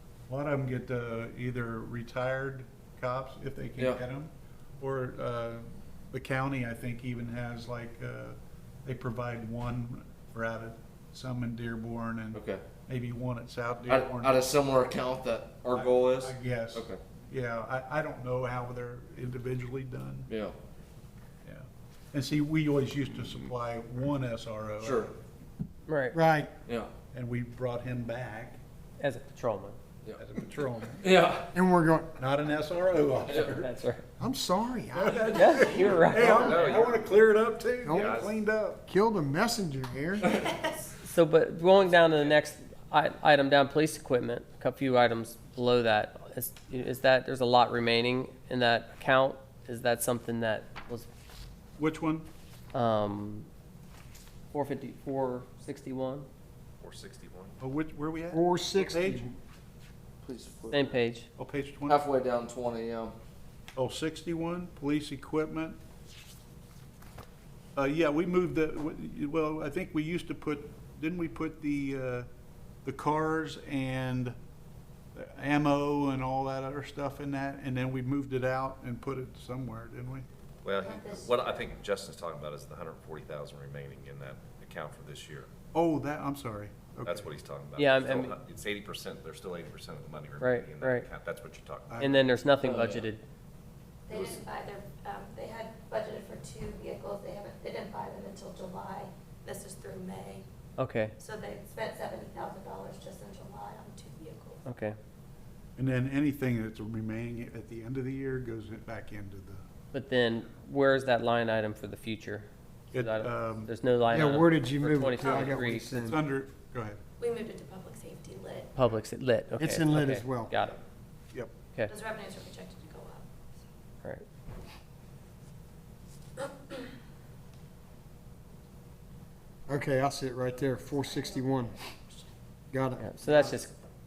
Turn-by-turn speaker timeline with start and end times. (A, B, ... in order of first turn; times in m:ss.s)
0:00.3-0:14.6 A
0:12.3-0:12.6 B
0:13.9-0:17.0 B
0:15.7-0:20.3 A
0:21.4-0:25.1 A
0:25.9-0:26.2 C
0:26.1-0:26.5 D
0:27.1-0:28.6 A
0:29.0-0:29.8 C
0:30.2-0:31.2 A
0:31.1-0:31.5 B
0:31.5-0:32.2 D
0:32.2-0:33.7 A
0:33.4-0:34.0 C
0:34.2-0:35.3 D
0:34.9-0:38.8 A
0:35.3-0:36.8 C
0:36.4-0:37.0 E
0:37.8-0:38.3 D
0:37.9-0:38.3 E
0:38.8-0:40.3 D
0:40.4-0:40.7 F
0:41.0-0:51.1 C
0:41.8-0:42.4 E
0:51.8-0:52.3 A
0:52.7-0:53.5 C
0:54.5-0:56.3 C
0:56.8-0:57.6 E
0:57.6-0:59.3 A
0:58.3-0:59.4 D
1:00.2-1:01.0 B
1:00.7-1:01.3 C
1:01.4-1:02.0 A
1:01.9-1:03.1 B
1:03.8-1:05.8 A
1:07.8-1:12.3 A
1:12.8-1:14.4 A
1:15.2-1:20.3 A
1:20.6-1:25.5 E
1:20.8-1:21.7 F
1:25.7-1:27.3 A
1:27.0-1:31.9 E
1:27.8-1:28.4 C
1:30.4-1:31.1 C
1:31.9-1:32.2 A
1:32.0-1:33.2 C
1:32.6-1:33.0 B
1:34.1-1:40.5 F
1:40.8-1:41.1 C
1:41.2-1:44.6 F
1:44.7-1:45.0 C
1:45.8-1:49.7 A
1:49.9-1:56.2 C
1:52.9-1:53.7 A
1:54.1-1:56.2 D
1:55.2-1:57.0 A
1:57.2-1:58.8 F
1:58.8-2:00.8 C
1:59.6-2:00.5 D
2:01.9-2:03.6 F
2:06.4-2:06.9 F
2:09.7-2:11.7 D
2:10.6-2:12.3 F
2:12.7-2:13.6 D
2:13.0-2:13.7 C